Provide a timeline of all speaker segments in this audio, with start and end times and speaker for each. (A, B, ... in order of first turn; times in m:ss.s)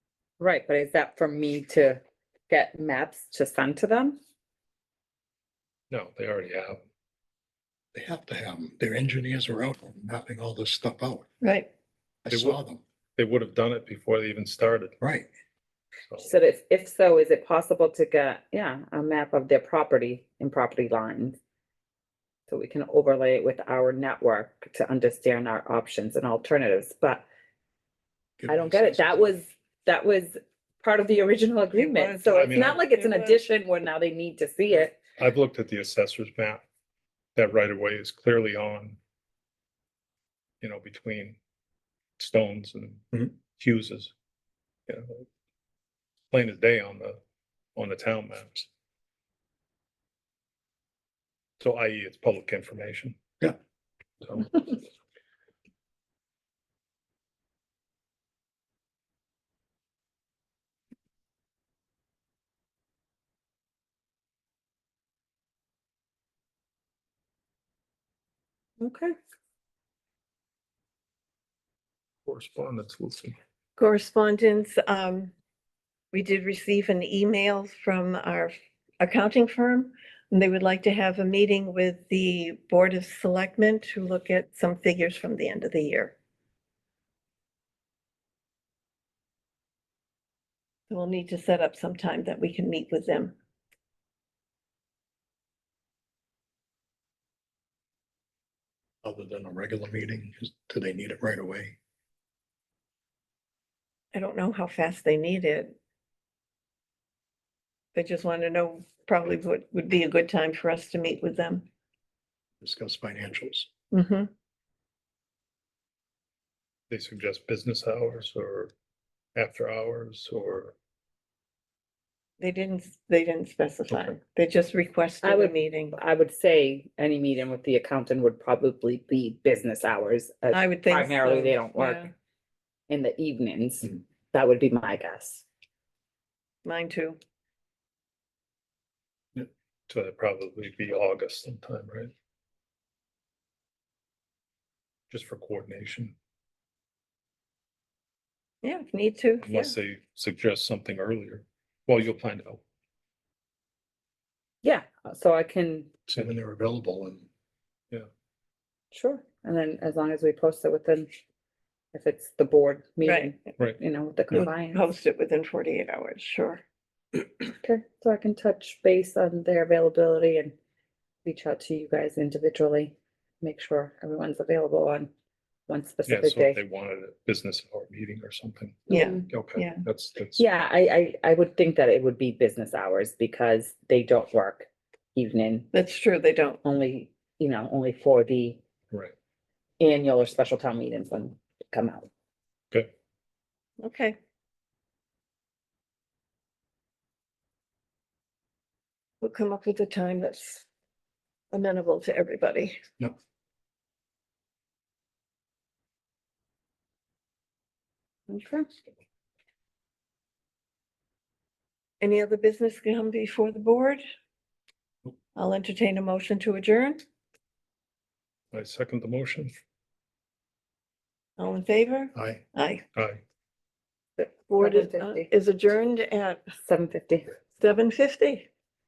0:00.4-0:04.2 A
0:05.9-0:06.8 B
0:07.9-0:11.3 C
0:11.4-0:11.7 D
0:12.2-0:12.8 C
0:12.3-0:12.6 B
0:13.2-0:15.0 B
0:15.0-0:15.3 C
0:16.2-0:21.4 A
0:22.5-0:27.2 A
0:28.4-0:29.4 C
0:28.5-0:35.0 A
0:31.7-0:33.4 D
0:32.4-0:32.8 B
0:35.2-0:36.6 B
0:37.4-0:39.0 B
0:40.6-0:41.4 B
0:42.2-0:44.1 B
0:44.9-0:45.2 B
0:46.3-0:47.2 B
0:47.7-0:48.7 B
0:51.6-0:53.2 B
0:54.2-0:54.7 B
1:08.8-1:09.1 A
1:12.2-1:13.4 B
1:13.8-1:15.3 D
1:16.1-1:26.1 D
1:30.9-1:33.3 D
1:39.0-1:41.8 C
1:44.1-1:45.8 D
1:47.9-1:51.6 D
1:52.6-1:53.7 C
1:53.9-1:54.3 D
1:56.9-1:58.7 B
1:59.3-2:00.7 B
2:02.4-2:06.0 D
2:05.2-2:12.1 A
2:10.5-2:12.1 D
2:12.9-2:15.4 A
2:16.6-2:17.2 D
2:19.4-2:22.1 B
2:25.1-2:26.1 B
2:28.6-2:29.7 D
2:29.4-2:32.6 B
2:34.6-2:35.9 A
2:36.1-2:37.3 C
2:38.9-2:41.1 A
2:41.9-2:44.8 A
2:43.0-2:43.3 D
2:44.3-2:46.6 D
2:47.6-2:50.5 A
2:51.2-2:55.1 A
2:55.7-2:56.6 A
2:56.1-3:00.4 B
2:58.9-2:59.2 A
2:58.9-2:59.8 D
3:00.4-3:05.7 A
3:05.7-3:06.6 D
3:06.6-3:08.6 A
3:09.8-3:12.1 A
3:13.8-3:14.2 D
3:19.2-3:20.6 D
3:21.5-3:22.8 D
3:28.3-3:28.7 A
3:32.0-3:34.0 D
3:35.3-3:37.0 D
3:38.5-3:39.5 B
3:41.4-3:42.8 D
3:42.9-3:43.2 B
3:44.5-3:46.4 D
3:44.6-3:45.3 A
3:46.6-3:47.3 A
3:47.6-3:48.5 D